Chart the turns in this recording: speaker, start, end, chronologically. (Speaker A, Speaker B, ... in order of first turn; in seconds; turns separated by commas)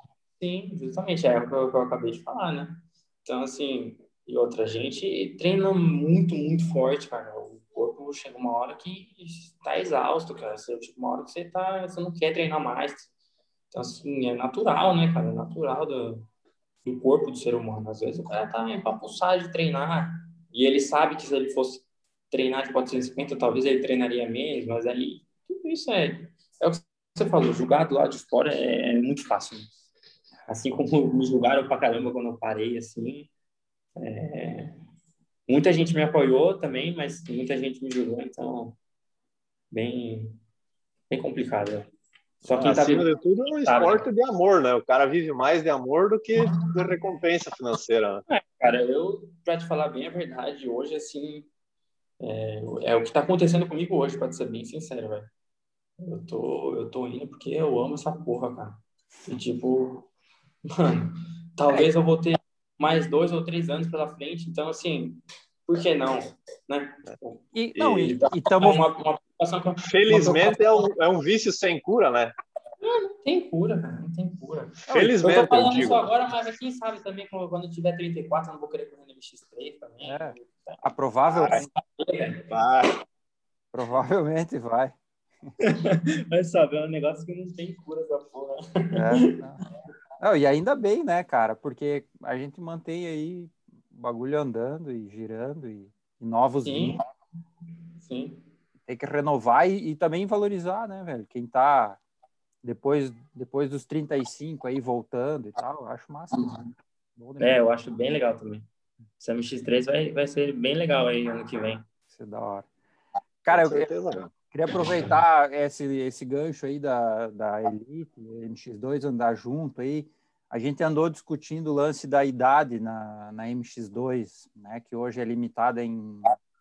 Speaker A: 0.4-13.1, Speaker A: 13.7-16.3, Speaker A: 16.8-29.7, Speaker A: 30.5-33.3, Speaker A: 34.0-34.8, Speaker A: 35.5-38.8, Speaker A: 39.7-40.4, Speaker A: 41.1-41.9, Speaker A: 42.4-43.1, Speaker B: 42.5-48.2, Speaker A: 43.6-44.1, Speaker A: 46.4-46.7, Speaker A: 48.3-51.5, Speaker A: 52.2-55.3, Speaker A: 56.0-60.1, Speaker A: 60.7-67.4, Speaker C: 67.5-68.8, Speaker B: 67.8-68.1, Speaker A: 68.0-70.8, Speaker B: 69.8-72.3, Speaker A: 72.8-82.5, Speaker B: 74.9-76.0, Speaker C: 74.9-75.2, Speaker C: 80.0-81.7, Speaker B: 82.5-82.9, Speaker C: 83.7-85.0, Speaker A: 85.6-89.3, Speaker C: 88.9-89.6, Speaker C: 90.2-97.0, Speaker A: 96.7-97.0, Speaker A: 98.0-98.4, Speaker C: 98.9-102.0, Speaker C: 102.6-106.5, Speaker A: 106.3-106.7, Speaker C: 107.2-107.6, Speaker A: 107.4-108.7, Speaker A: 109.2-111.8, Speaker C: 112.1-112.7, Speaker B: 113.5-114.3, Speaker C: 113.5-113.9, Speaker C: 114.5-126.3